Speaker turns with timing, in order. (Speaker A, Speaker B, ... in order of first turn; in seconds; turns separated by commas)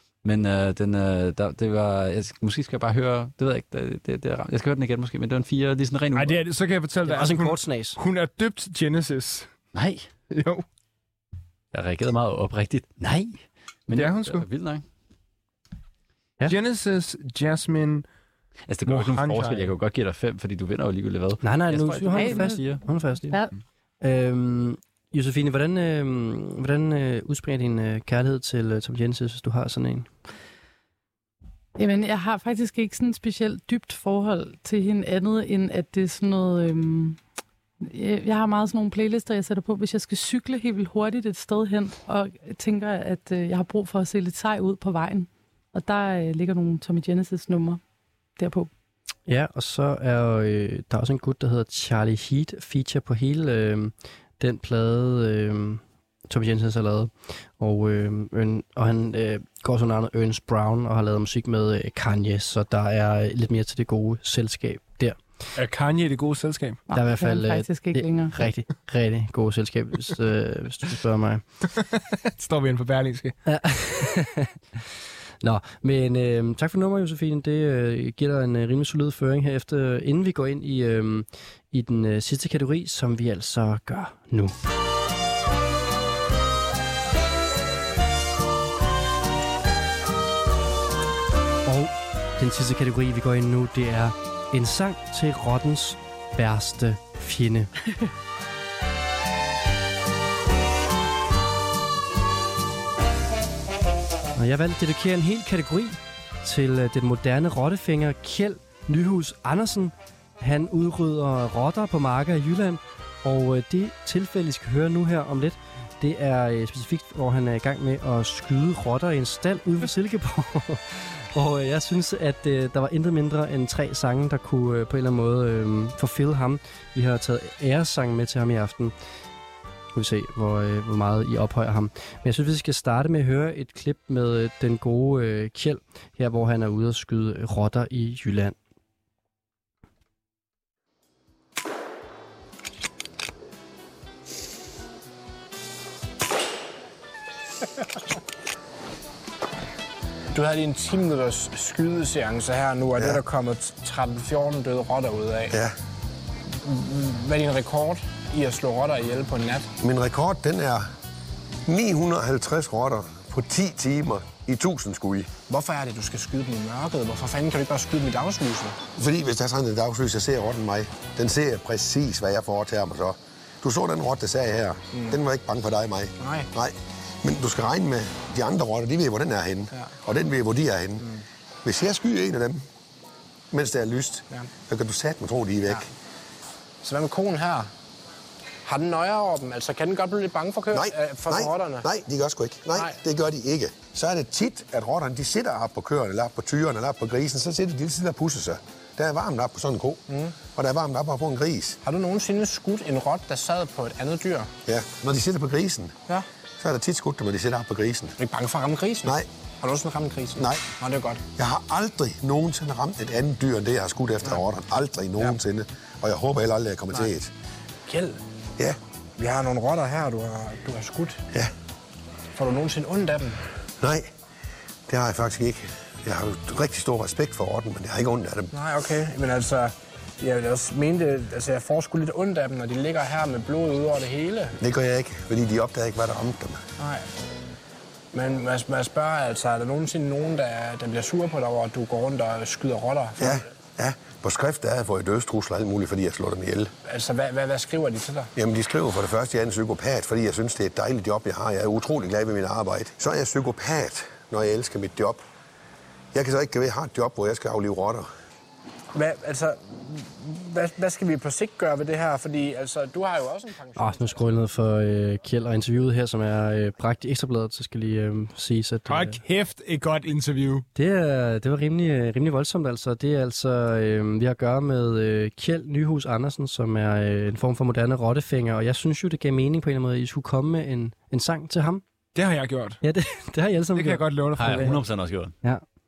Speaker A: 0.2-6.4, Speaker B: 6.2-9.5, Speaker C: 7.1-8.0, Speaker A: 9.7-10.1, Speaker B: 10.3-10.6, Speaker A: 11.7-14.8, Speaker B: 13.9-14.4, Speaker B: 16.4-18.1, Speaker A: 18.7-22.8, Speaker B: 18.9-19.7, Speaker C: 21.4-23.4, Speaker D: 22.1-22.6, Speaker C: 24.0-30.1, Speaker D: 31.8-37.2, Speaker D: 37.8-47.8, Speaker D: 48.4-48.7, Speaker C: 49.3-65.2, Speaker B: 65.5-66.8, Speaker D: 66.9-68.4, Speaker C: 66.9-71.4, Speaker B: 72.1-73.4, Speaker C: 73.5-74.5, Speaker C: 75.4-84.5, Speaker C: 91.7-97.7, Speaker C: 104.3-128.9, Speaker C: 129.9-138.6, Speaker E: 150.3-155.6, Speaker E: 156.6-159.7, Speaker F: 159.8-160.9, Speaker F: 161.7-165.3, Speaker E: 165.5-168.8, Speaker F: 169.0-181.1, Speaker E: 174.9-175.2, Speaker E: 176.2-176.5, Speaker E: 179.7-180.0, Speaker F: 181.7-182.6, Speaker F: 183.5-185.9, Speaker E: 186.8-187.7, Speaker E: 188.6-191.9, Speaker F: 190.7-201.8, Speaker E: 192.7-193.0, Speaker E: 200.1-200.4, Speaker E: 201.8-204.5, Speaker F: 204.7-205.9, Speaker F: 206.6-208.2, Speaker E: 208.2-211.2, Speaker F: 210.4-210.7, Speaker F: 211.4-217.3, Speaker E: 217.9-218.2, Speaker E: 219.2-221.2, Speaker E: 222.3-223.4, Speaker F: 223.8-224.1, Speaker F: 224.9-228.5, Speaker E: 228.5-234.6, Speaker F: 234.6-236.6, Speaker E: 236.8-237.1, Speaker E: 238.1-243.5, Speaker F: 243.2-246.7, Speaker E: 246.8-248.3, Speaker F: 248.3-255.2, Speaker F: 256.1-258.1, Speaker E: 258.9-264.3, Speaker C: 263.8-269.2, Speaker B: 268.9-270.7, Speaker C: 270.8-281.8, Speaker B: 282.1-282.8, Speaker C: 282.8-284.8, Speaker B: 283.8-284.8, Speaker A: 284.4-285.3